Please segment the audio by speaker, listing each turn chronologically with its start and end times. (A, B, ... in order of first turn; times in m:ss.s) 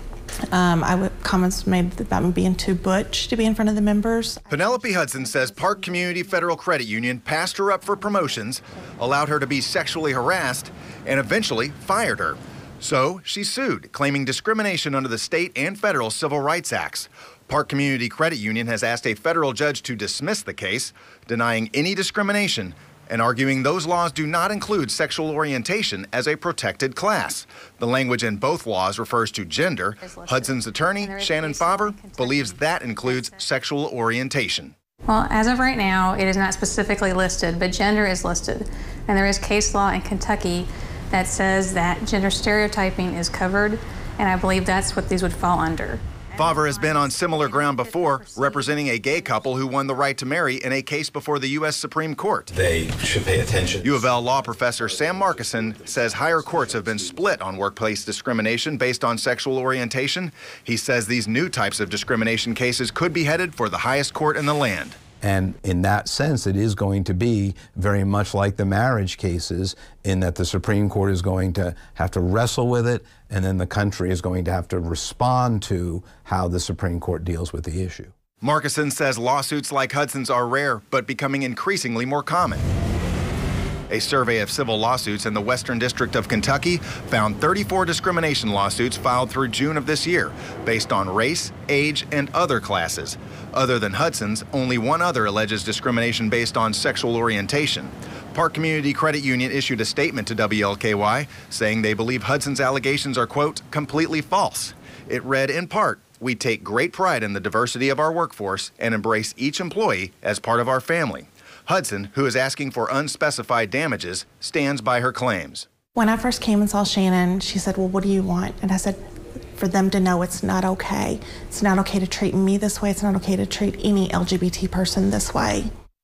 0:00.5-0:06.7 A
0:04.5-0:34.7 B
0:07.8-0:08.4 A
0:30.0-0:33.5 C
0:35.1-0:49.8 C
0:46.4-0:52.5 B
0:52.5-0:57.4 D
0:53.8-1:05.0 B
1:05.2-1:18.1 D
1:18.4-1:22.6 B
1:23.9-1:55.6 B
1:55.9-1:59.0 A
1:59.6-2:05.7 A